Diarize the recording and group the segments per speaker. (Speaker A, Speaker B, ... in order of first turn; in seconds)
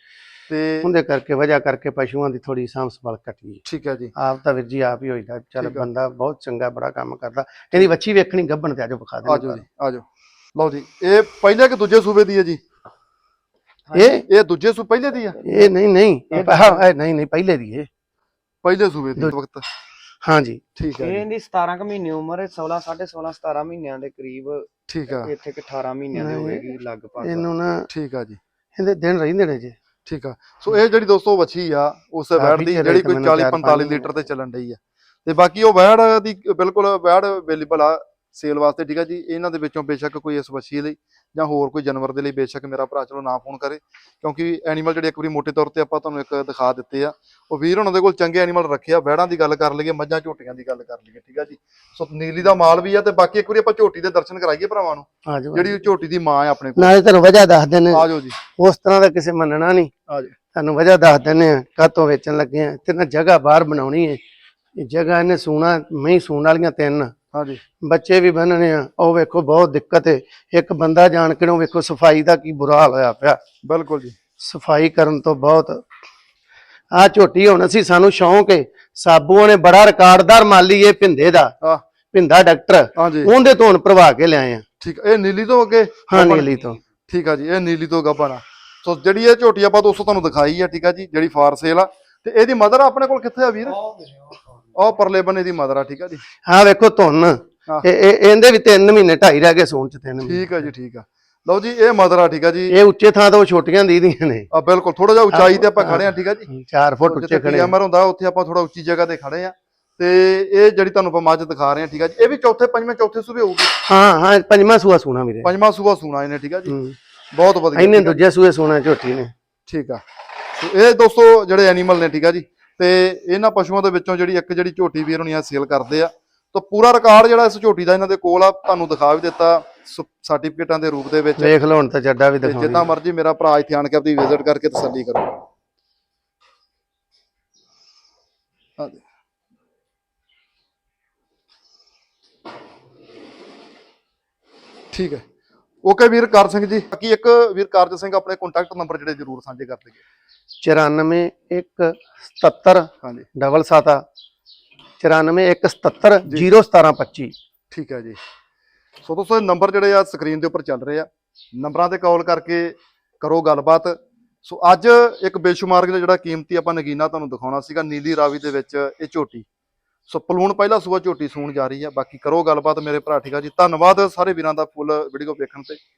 Speaker A: 0.5-0.9, 3.6-4.1, 5.6-5.9, 9.2-10.0, 10.6-12.6, 14.2-15.4, 16.4-16.7, 18.6-19.6, 20.8-21.2, 24.9-25.3, 27.9-28.4, 30.1-56.9, 57.9-58.4, 60.1-60.3, 67.3-67.6, 73.6-74.2, 83.0-83.3, 84.8-86.5, 87.1-93.8, 94.8-96.2, 100.2-102.8, 104.5-106.5, 107.0-113.7, 115.4-116.7, 117.3-118.2, 119.7-120.0, 120.6-131.5, 132.4-135.3, 138.8-139.0, 144.9-145.2, 145.8-150.0, 153.0-153.3, 157.7-158.2, 159.0-169.4, 170.1-175.8
Speaker B: 0.8-3.6, 4.2-9.6, 13.9-14.2, 15.4-17.9, 20.2-20.6, 26.1-26.6, 27.2-27.9, 28.8-29.7, 32.4-34.1, 55.3-55.8, 56.8-59.9, 60.5-64.2, 64.8-67.1, 67.8-73.4, 74.4-75.8, 76.9-81.5, 82.1-84.6, 86.1-86.8, 96.5-100.5, 102.7-104.5, 105.3-107.7, 113.8-115.5, 116.7-117.0, 117.7-119.3, 131.4-132.9, 150.6-154.0, 155.0-157.3
Speaker C: 13.9-14.2, 15.4-15.7, 16.4-16.7, 21.0-27.5, 86.4-86.8, 93.6-94.8